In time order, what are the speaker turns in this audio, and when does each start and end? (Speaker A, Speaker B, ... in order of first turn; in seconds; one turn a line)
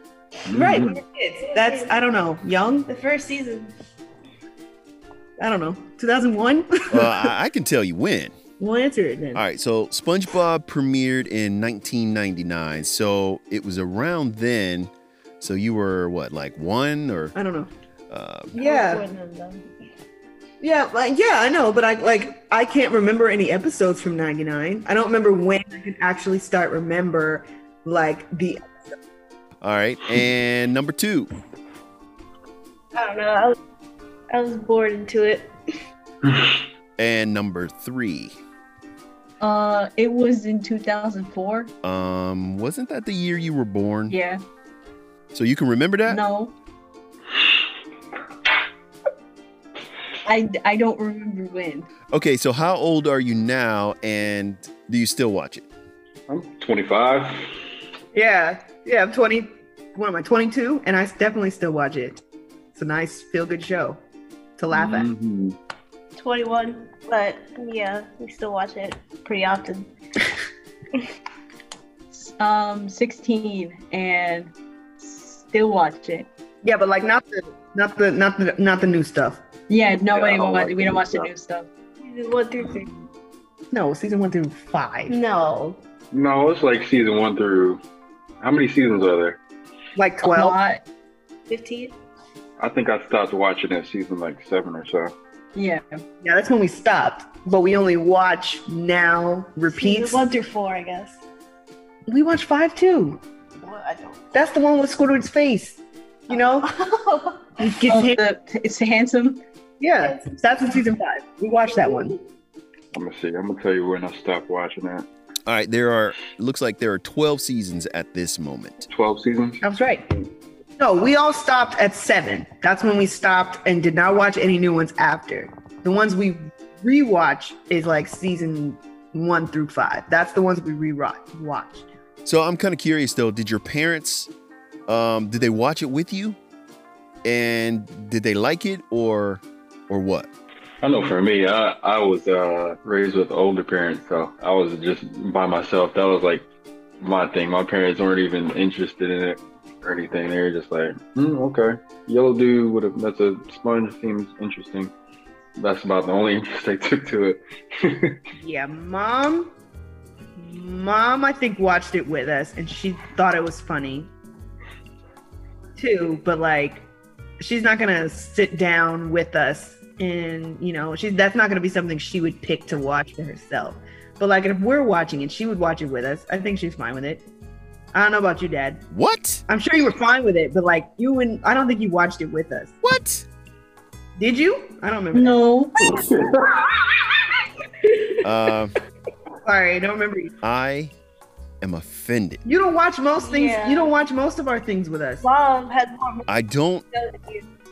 Speaker A: 0.5-0.9
Speaker B: 0.5-2.9
Speaker C: 0.9-1.9
Speaker C: 2.9-3.7
Speaker B: 5.4-7.2
Speaker D: 6.9-8.4
Speaker B: 8.6-9.4
Speaker D: 9.3-17.3
Speaker B: 17.3-17.7
Speaker D: 18.1-18.5
Speaker C: 18.5-19.6
Speaker B: 18.6-19.0
Speaker B: 20.6-28.7
Speaker D: 29.6-31.3
Speaker C: 32.9-33.5
Speaker C: 34.3-35.5
Speaker A: 36.2-36.6
Speaker D: 37.0-38.3
Speaker E: 39.4-41.7
Speaker D: 41.8-44.1
Speaker E: 44.1-44.4
Speaker D: 45.3-46.2
Speaker E: 46.1-46.5
Speaker E: 50.2-51.9
Speaker D: 52.1-55.6
Speaker A: 56.3-57.5
Speaker B: 58.1-62.2
Speaker B: 62.7-64.0
Speaker B: 64.6-65.1
Speaker A: 64.7-65.6
Speaker C: 66.2-69.9
Speaker E: 72.1-76.3
Speaker B: 76.6-79.4
Speaker E: 79.7-81.7
Speaker A: 80.1-81.3
Speaker C: 82.0-82.9
Speaker A: 82.6-83.0
Speaker B: 83.7-85.2
Speaker C: 85.1-85.8
Speaker A: 86.1-87.8
Speaker A: 88.4-89.4
Speaker B: 90.0-90.6
Speaker E: 90.2-90.8
Speaker C: 91.5-91.9
Speaker A: 92.6-95.1
Speaker E: 95.5-95.8
Speaker B: 96.2-100.2
Speaker C: 99.7-101.2
Speaker B: 102.1-103.2
Speaker C: 103.6-104.2
Speaker B: 104.3-106.7
Speaker C: 106.3-107.5
Speaker B: 107.6-108.2
Speaker E: 107.9-109.4
Speaker B: 109.8-112.1
Speaker C: 110.0-110.8
Speaker C: 111.7-112.1
Speaker A: 112.9-115.1
Speaker D: 115.5-118.8
Speaker A: 118.9-119.6
Speaker B: 119.6-120.2
Speaker B: 120.8-131.9
Speaker D: 132.2-134.3
Speaker D: 134.9-136.4
Speaker D: 137.2-140.3
Speaker A: 140.8-146.4
Speaker A: 147.0-154.9
Speaker A: 155.6-158.2
Speaker B: 158.4-159.5
Speaker B: 160.4-164.1
Speaker B: 165.8-166.9
Speaker B: 167.4-177.2
Speaker B: 177.9-178.8
Speaker D: 178.9-179.4
Speaker B: 179.5-182.8
Speaker D: 182.8-183.2
Speaker B: 184.2-185.4
Speaker E: 185.1-185.8
Speaker A: 185.9-186.7
Speaker D: 188.2-188.7
Speaker B: 189.4-190.3
Speaker D: 190.4-190.9
Speaker D: 191.6-192.4
Speaker B: 192.4-195.2
Speaker C: 193.2-193.9
Speaker C: 195.2-196.3
Speaker D: 196.3-196.8
Speaker C: 196.9-197.4